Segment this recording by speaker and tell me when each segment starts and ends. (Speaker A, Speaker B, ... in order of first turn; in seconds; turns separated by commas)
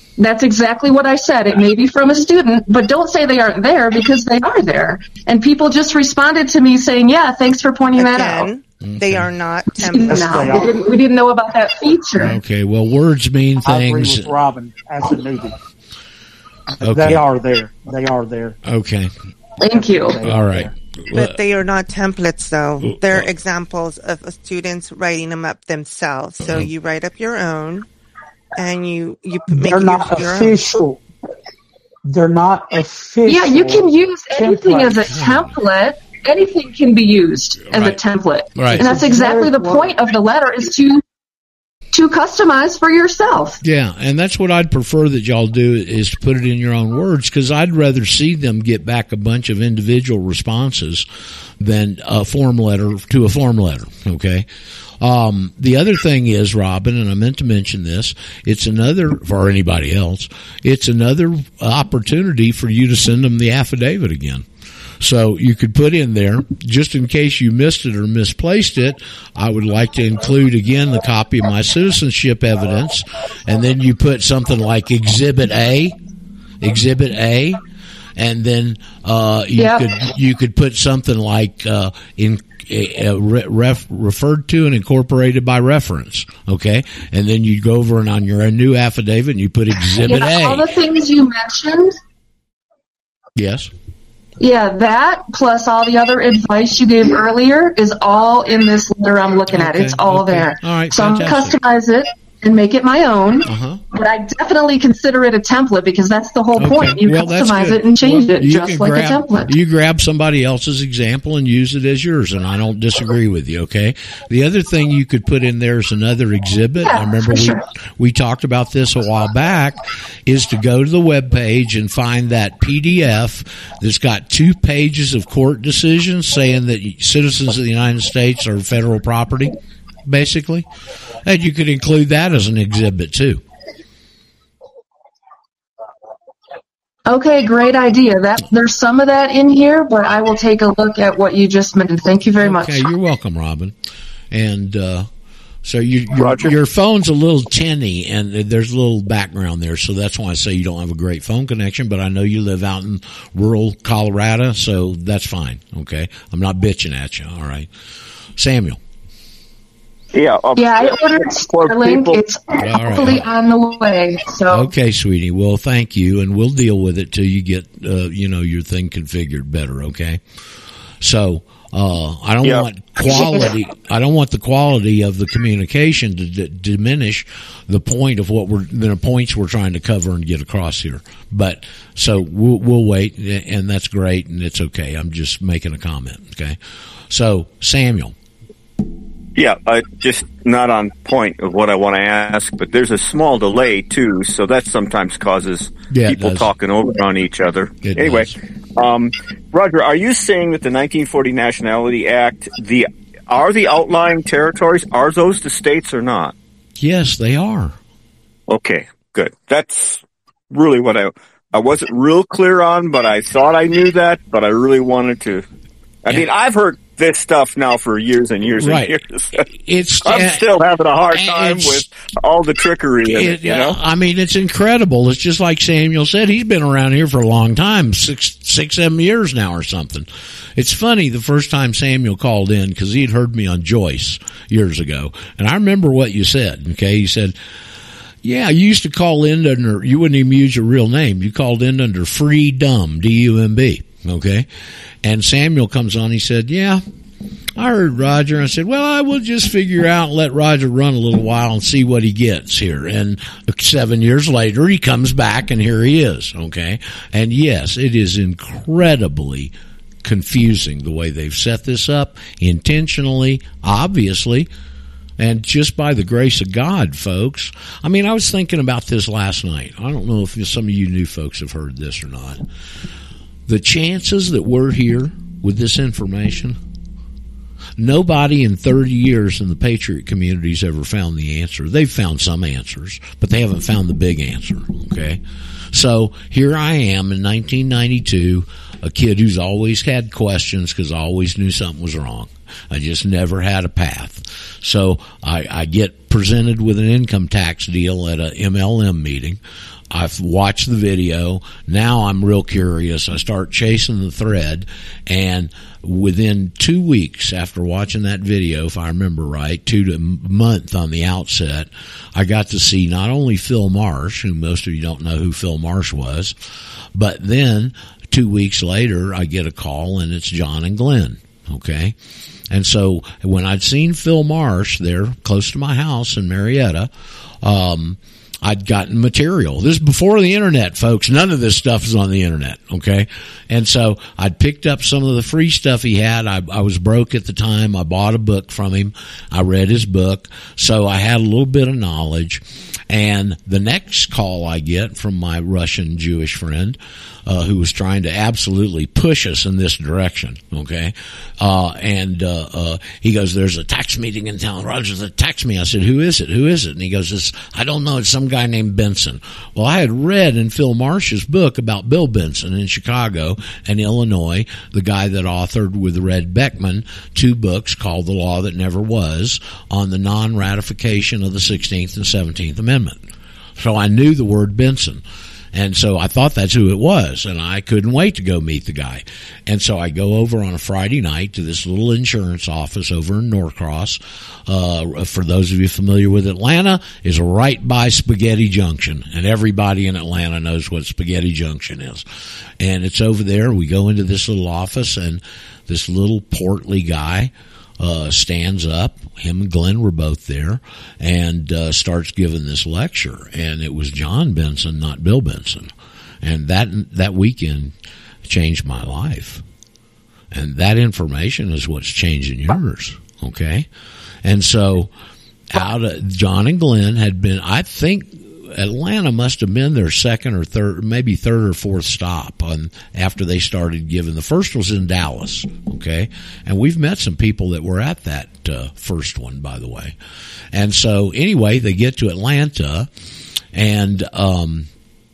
Speaker A: 0.2-8.5, Speaker B: 8.0-10.6, Speaker C: 8.8-9.3, Speaker A: 9.8-12.4, Speaker D: 10.1-10.8, Speaker C: 12.2-14.3, Speaker D: 13.6-15.6, Speaker D: 16.8-18.6, Speaker C: 16.8-17.2, Speaker C: 18.6-19.1, Speaker A: 19.6-20.2, Speaker D: 19.7-20.7, Speaker C: 20.2-21.4, Speaker B: 21.1-27.9, Speaker C: 22.8-23.2, Speaker B: 28.6-30.6, Speaker D: 29.5-31.0, Speaker D: 32.1-35.1, Speaker A: 33.3-41.0, Speaker C: 35.1-35.4, Speaker C: 37.7-38.0, Speaker C: 38.6-38.9, Speaker D: 38.8-39.8, Speaker A: 41.9-43.6, Speaker C: 43.6-51.1, Speaker C: 51.6-54.5, Speaker C: 55.0-64.5, Speaker C: 65.0-76.0, Speaker C: 76.6-77.6, Speaker C: 78.2-90.7, Speaker A: 79.6-79.8, Speaker A: 89.9-92.0, Speaker C: 93.4-93.7, Speaker A: 94.4-109.5, Speaker C: 99.5-101.6, Speaker C: 103.5-103.8, Speaker C: 106.6-130.7, Speaker A: 116.8-117.6, Speaker C: 131.2-133.4, Speaker A: 137.1-142.9, Speaker C: 142.4-143.7, Speaker C: 144.3-145.1, Speaker C: 145.6-157.7, Speaker E: 146.2-146.5, Speaker C: 158.4-158.8, Speaker E: 160.1-162.2, Speaker A: 160.6-164.7, Speaker C: 162.6-163.3, Speaker C: 164.5-170.2, Speaker C: 171.0-186.6, Speaker E: 172.4-173.2, Speaker C: 187.1-188.1, Speaker E: 189.4-206.3, Speaker C: 195.9-196.5, Speaker C: 197.8-198.4, Speaker C: 206.8-207.8, Speaker E: 208.5-215.4, Speaker E: 216.1-219.4, Speaker C: 218.6-219.0, Speaker C: 219.5-220.4, Speaker E: 220.0-223.8, Speaker C: 221.1-221.9, Speaker C: 223.1-237.4, Speaker C: 238.2-244.5, Speaker C: 245.0-246.8, Speaker C: 247.6-264.5, Speaker C: 265.2-272.4, Speaker C: 273.5-276.6, Speaker C: 277.8-285.2, Speaker C: 285.7-299.4, Speaker C: 299.9-316.4, Speaker C: 316.9-321.9, Speaker C: 322.5-326.9, Speaker C: 327.4-373.0, Speaker C: 373.6-375.0, Speaker C: 375.5-392.1, Speaker C: 392.6-407.7, Speaker C: 408.2-409.4, Speaker C: 410.3-413.7, Speaker C: 414.2-414.9, Speaker C: 415.5-430.0, Speaker C: 430.5-432.9, Speaker C: 433.5-434.7